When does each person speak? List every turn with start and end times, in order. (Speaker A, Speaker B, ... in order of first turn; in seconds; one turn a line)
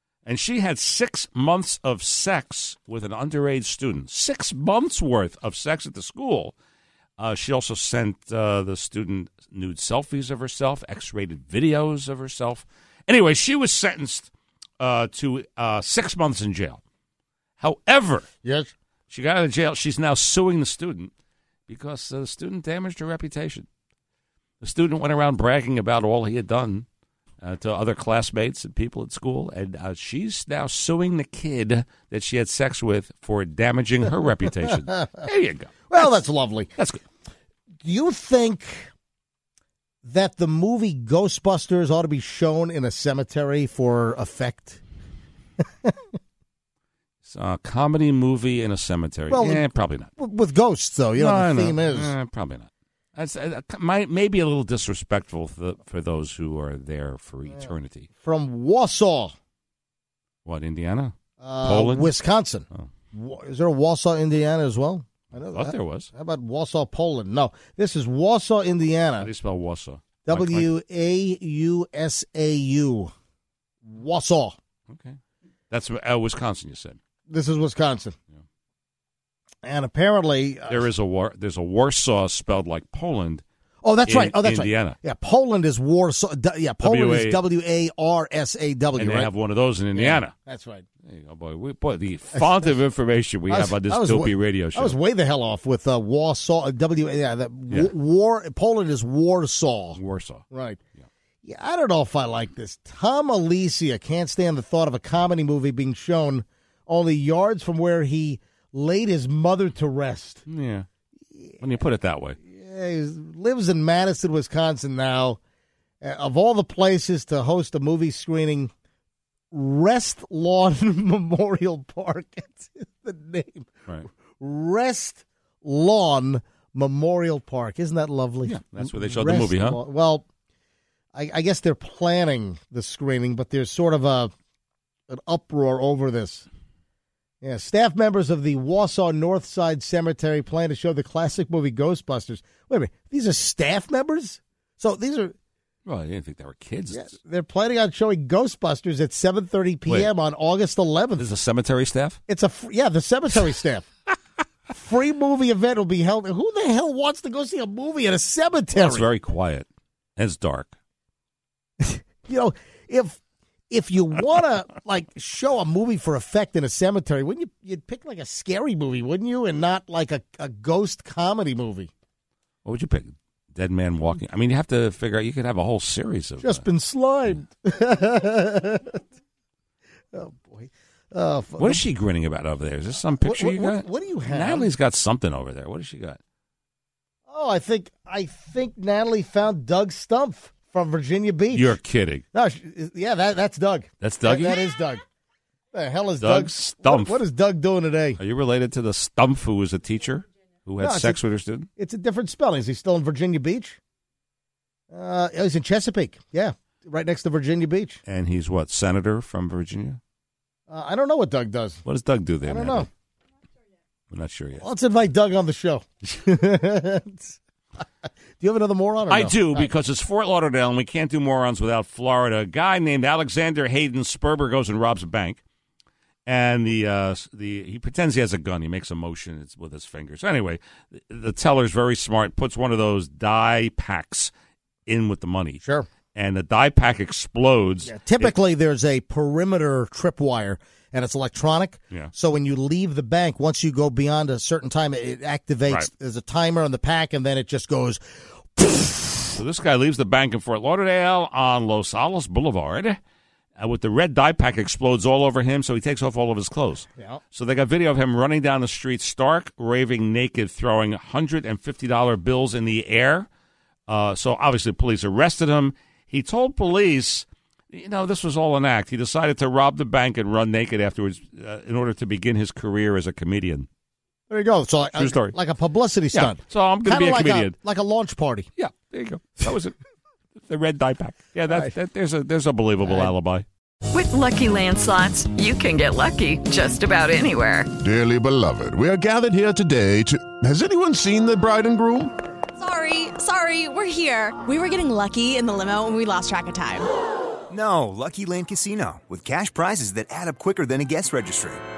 Speaker A: 0.2-6.5
Speaker A: 7.2-16.8
Speaker A: 17.6-18.3
Speaker B: 18.4-18.7
Speaker A: 19.1-21.1
Speaker A: 21.7-23.7
Speaker A: 24.6-26.9
Speaker A: 27.4-36.2
Speaker B: 35.9-36.7
Speaker A: 36.8-37.0
Speaker B: 37.8-38.9
Speaker B: 40.0-44.8
Speaker A: 47.2-50.1
Speaker B: 49.3-52.1
Speaker A: 51.2-58.1
Speaker B: 58.2-59.3
Speaker A: 60.5-62.1
Speaker B: 61.4-69.3
Speaker A: 65.5-66.1
Speaker A: 69.2-70.7
Speaker B: 70.2-73.1
Speaker B: 73.8-74.6
Speaker A: 74.9-75.2
Speaker A: 75.7-77.0
Speaker B: 77.3-78.2
Speaker B: 79.6-80.9
Speaker A: 80.7-83.4
Speaker B: 83.8-89.3
Speaker A: 84.1-85.0
Speaker A: 86.8-87.4
Speaker A: 89.0-90.3
Speaker B: 89.9-90.9
Speaker A: 91.0-95.0
Speaker B: 93.5-100.0
Speaker A: 99.9-100.4
Speaker B: 100.5-100.8
Speaker B: 101.4-110.5
Speaker A: 110.5-110.9
Speaker B: 111.3-111.6
Speaker A: 111.6-112.4
Speaker B: 112.4-115.4
Speaker B: 116.0-118.7
Speaker B: 119.5-123.8
Speaker B: 124.4-130.2
Speaker A: 128.4-129.8
Speaker B: 131.1-134.3
Speaker B: 135.1-136.5
Speaker B: 137.4-145.3
Speaker A: 145.9-147.2
Speaker B: 146.9-151.3
Speaker A: 151.2-152.2
Speaker B: 152.3-153.9
Speaker B: 154.7-159.1
Speaker A: 158.7-160.8
Speaker B: 161.8-171.9
Speaker A: 172.7-176.7
Speaker B: 176.4-179.0
Speaker B: 180.1-181.8
Speaker A: 181.6-186.2
Speaker B: 183.2-184.7
Speaker B: 187.3-191.8
Speaker A: 191.5-192.2
Speaker B: 192.3-195.0
Speaker A: 194.0-194.7
Speaker B: 195.7-198.2
Speaker A: 196.2-197.2
Speaker A: 198.2-201.7
Speaker B: 200.8-201.2
Speaker B: 201.8-203.8
Speaker B: 204.9-208.0
Speaker A: 208.1-210.0
Speaker B: 210.7-211.8
Speaker A: 211.8-212.9
Speaker B: 212.4-212.9
Speaker A: 214.1-214.6
Speaker B: 214.6-217.3
Speaker B: 218.4-219.7
Speaker A: 219.1-225.4
Speaker A: 226.3-234.3
Speaker A: 234.9-235.6
Speaker B: 235.6-235.9
Speaker A: 236.1-238.3
Speaker B: 237.8-248.0
Speaker B: 248.5-249.4
Speaker A: 249.3-253.0
Speaker A: 253.6-263.3
Speaker A: 263.9-273.7
Speaker B: 274.3-278.5
Speaker A: 275.0-275.4
Speaker A: 276.1-277.6
Speaker A: 278.6-279.8
Speaker A: 280.4-283.5
Speaker B: 282.8-283.1
Speaker C: 283.9-287.7
Speaker D: 287.8-292.1
Speaker E: 292.6-296.9
Speaker F: 297.5-301.6